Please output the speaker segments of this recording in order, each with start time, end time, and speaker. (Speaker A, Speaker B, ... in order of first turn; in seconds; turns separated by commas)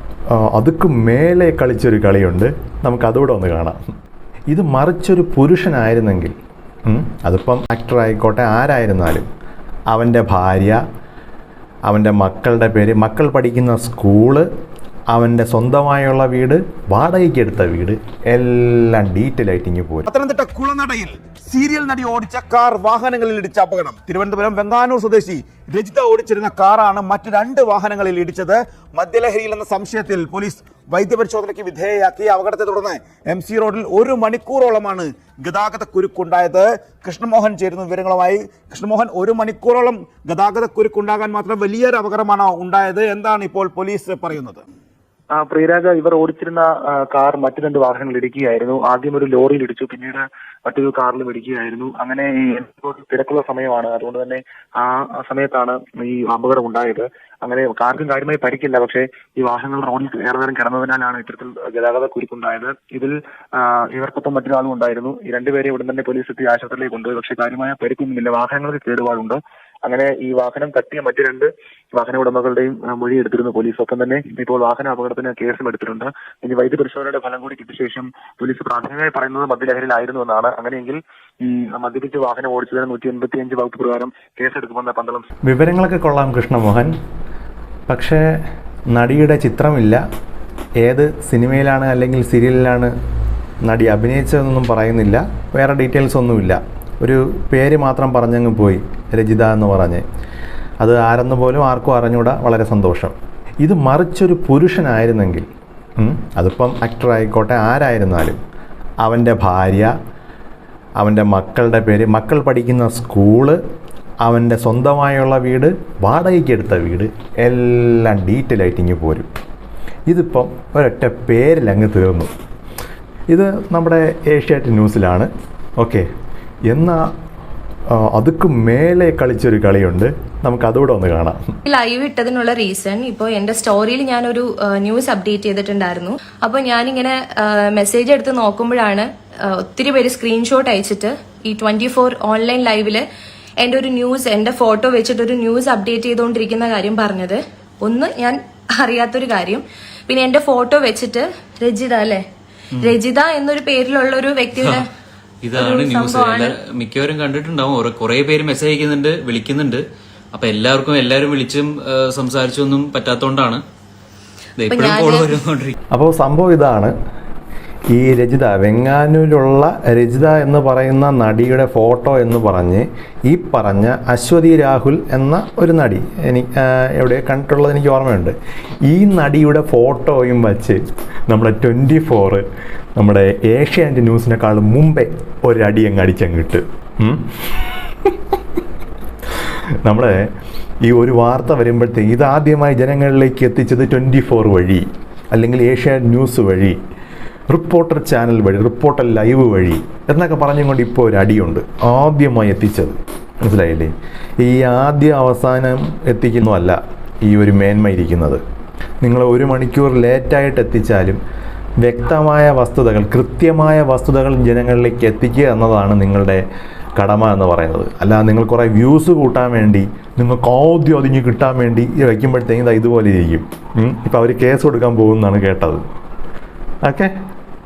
Speaker A: 0.3-3.8, Speaker A: 4.5-6.3, Speaker A: 6.9-9.3, Speaker A: 9.9-10.8, Speaker A: 11.9-14.5, Speaker A: 15.1-20.1, Speaker B: 20.1-44.6, Speaker C: 45.3-85.3, Speaker A: 85.5-86.9, Speaker A: 87.9-88.3, Speaker A: 88.9-90.0, Speaker A: 90.8-92.9, Speaker A: 93.6-100.0, Speaker A: 100.8-108.4, Speaker A: 109.0-109.9, Speaker A: 111.0-113.6, Speaker A: 114.2-119.3, Speaker A: 120.1-122.3, Speaker A: 123.3-126.1, Speaker A: 126.7-127.1, Speaker A: 127.9-131.4, Speaker D: 131.7-143.0, Speaker D: 143.6-152.2, Speaker D: 152.8-154.9, Speaker E: 155.4-159.8, Speaker D: 155.6-156.5, Speaker E: 160.3-163.6, Speaker E: 164.6-165.8, Speaker D: 164.7-165.3, Speaker A: 165.9-166.9, Speaker A: 167.9-178.3, Speaker A: 178.9-182.4, Speaker A: 183.0-187.3, Speaker A: 189.4-190.3, Speaker A: 190.8-196.8, Speaker A: 197.5-208.4, Speaker A: 209.0-211.2, Speaker A: 211.8-216.4, Speaker A: 217.0-225.8, Speaker A: 226.8-227.1